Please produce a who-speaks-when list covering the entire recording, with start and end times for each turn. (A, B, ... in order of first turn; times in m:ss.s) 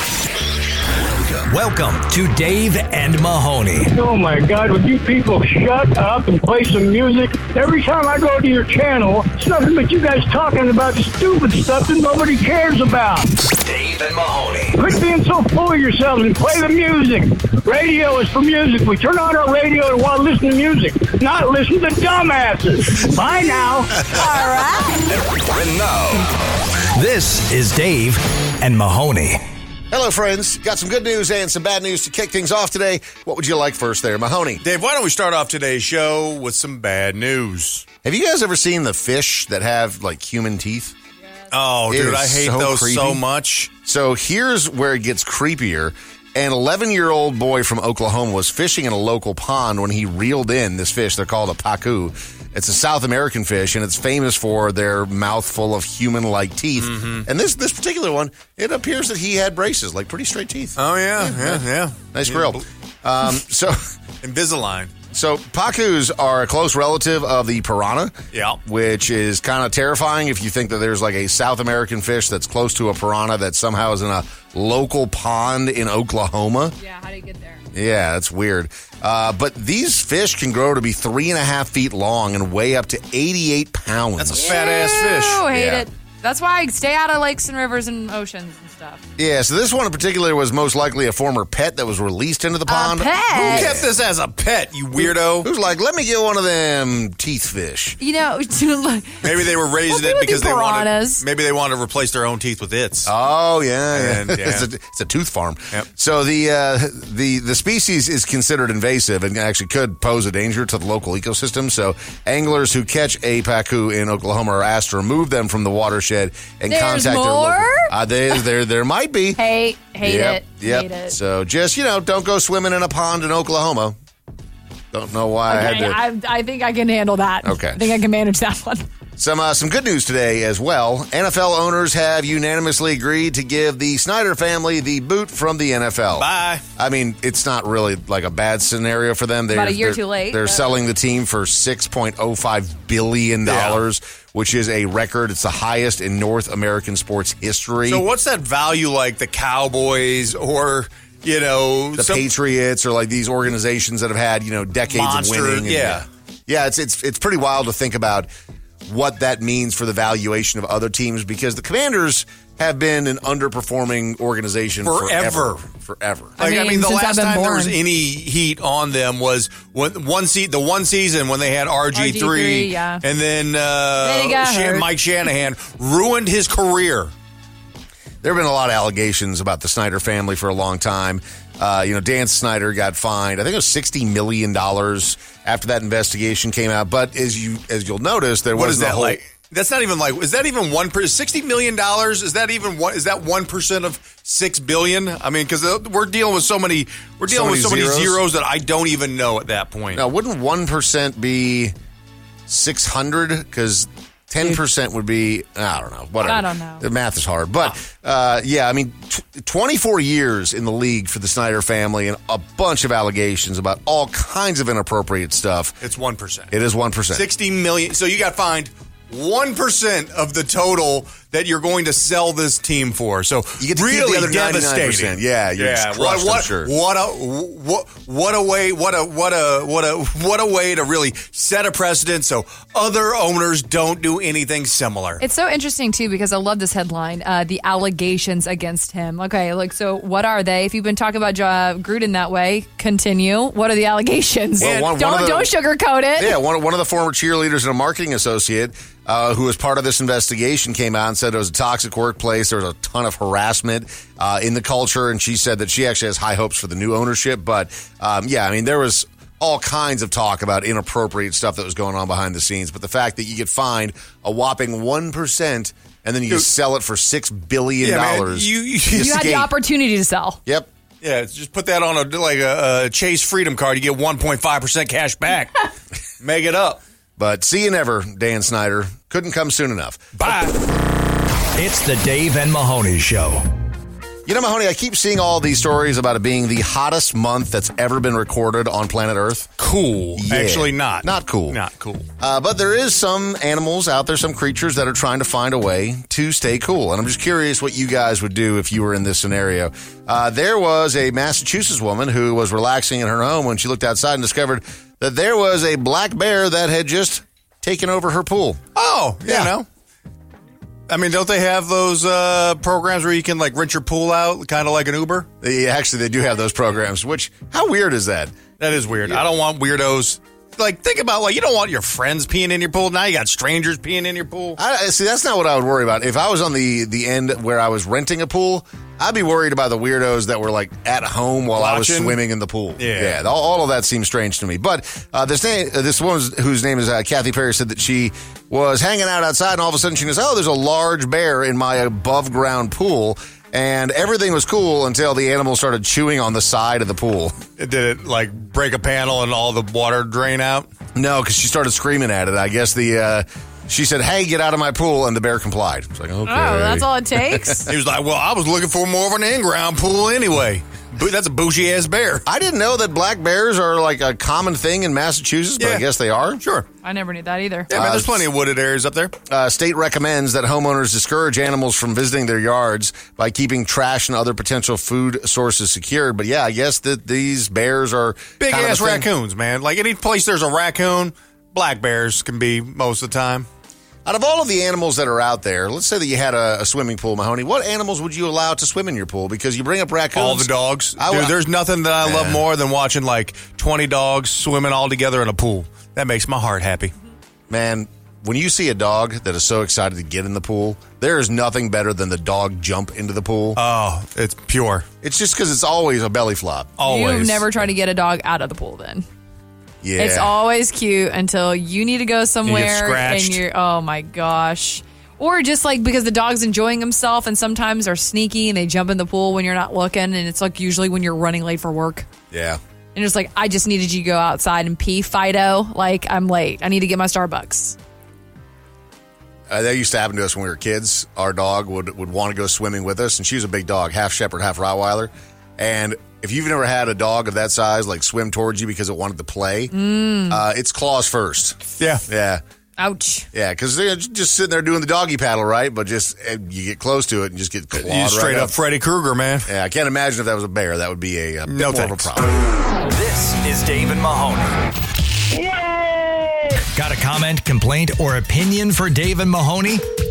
0:01.5-0:03.9 A
0:04.0-0:13.3 B
0:13.4-0:14.7 A
0:14.8-0:23.9 B
0:24.3-0:24.9 C
0:25.4-0:26.3 A
0:27.0-0:29.4 A
0:29.9-0:34.6 D
0:34.6-0:37.9 E
0:38.0-0:41.0 D
0:41.5-0:43.7 E
0:41.9-0:43.2 D
0:43.8-1:03.8 D
0:56.8-0:57.3 E
1:00.8-1:02.6 E
1:04.2-1:04.9 E
1:05.1-1:16.7 D
1:08.3-1:08.6 E
1:16.8-1:17.6 C
1:17.7-1:24.5 D
1:24.2-1:25.4 E
1:24.3-1:29.0 C
1:25.5-1:25.9 D
1:29.2-1:33.9 D
1:32.7-1:33.7 C
1:33.4-1:35.5 E
1:35.4-1:38.0 D
1:38.0-1:39.3 C
1:39.2-1:43.1 E
1:39.9-1:41.2 C
1:43.0-1:59.4 D
1:43.9-1:44.7 E
1:56.7-1:57.9 C
1:59.4-2:01.2 C
2:00.0-2:04.0 D
2:04.9-2:06.0 D
2:05.5-2:08.8 C
2:07.4-2:07.8 D
2:09.2-2:28.0 D
2:16.2-2:16.6 E
2:19.5-2:20.7 C
2:23.5-2:23.8 E
2:27.9-2:32.3 E
2:32.0-2:38.3 D
2:34.9-2:36.0 E
2:38.9-2:46.4 D
2:44.8-2:45.6 E
2:46.4-2:47.8 C
2:46.4-2:57.1 E
2:51.9-2:53.0 C
2:54.0-2:54.9 C
2:58.2-3:09.2 D
3:08.6-3:20.0 E
3:17.3-3:18.2 D
3:19.9-3:21.7 D
3:22.5-3:35.8 D
3:26.2-3:26.8 C
3:35.8-3:36.5 E
3:36.5-3:37.3 D
3:37.1-3:55.2 E
3:43.6-3:46.7 D
3:55.2-4:06.4 C
4:04.6-4:05.5 D
4:06.2-4:29.5 D
4:27.8-4:29.4 E
4:29.0-4:30.4 C
4:31.0-4:35.6 E
4:36.2-4:36.8 E
4:37.2-4:40.3 D
4:40.2-4:40.6 E
4:41.6-4:43.4 A
4:44.3-4:49.5 D
4:49.6-4:52.1 E
4:50.2-4:51.6 D
4:52.2-5:08.6 D
5:08.8-5:09.7 E
5:09.3-5:09.5 D
5:10.9-5:15.3 E
5:15.4-5:18.4 D
5:18.6-5:24.6 E
5:24.6-5:47.4 D
5:31.6-5:32.2 E
5:32.8-5:33.2 E
5:47.6-5:50.7 E
5:51.0-5:57.4 D
5:56.3-5:57.7 C
5:57.7-6:02.2 E
6:02.3-6:06.4 D
6:05.6-6:05.8 E
6:06.4-6:06.7 E
6:06.8-6:07.7 C
6:07.7-6:08.2 D
6:07.7-6:09.1 E
6:09.3-6:19.1 D
6:18.4-6:23.5 E
6:24.0-6:31.4 D
6:30.1-6:36.9 E
6:32.0-6:32.4 D
6:37.5-6:43.6 D
6:43.6-6:44.9 E
6:45.0-6:46.7 D
6:46.8-6:47.5 E
6:46.8-6:49.1 C
6:49.8-6:50.3 D
6:50.0-7:02.1 C
6:52.4-6:53.4 E
7:02.3-7:02.6 D
7:03.0-7:07.8 C
7:09.5-7:19.7 D
7:19.7-7:20.4 C
7:20.3-7:22.4 D
7:21.8-7:22.0 E
7:22.8-7:23.3 C
7:23.3-7:28.5 D
7:27.8-7:29.5 E
7:29.5-7:32.4 D
7:31.5-7:32.1 E
7:32.9-7:34.6 A
7:36.7-7:39.8 A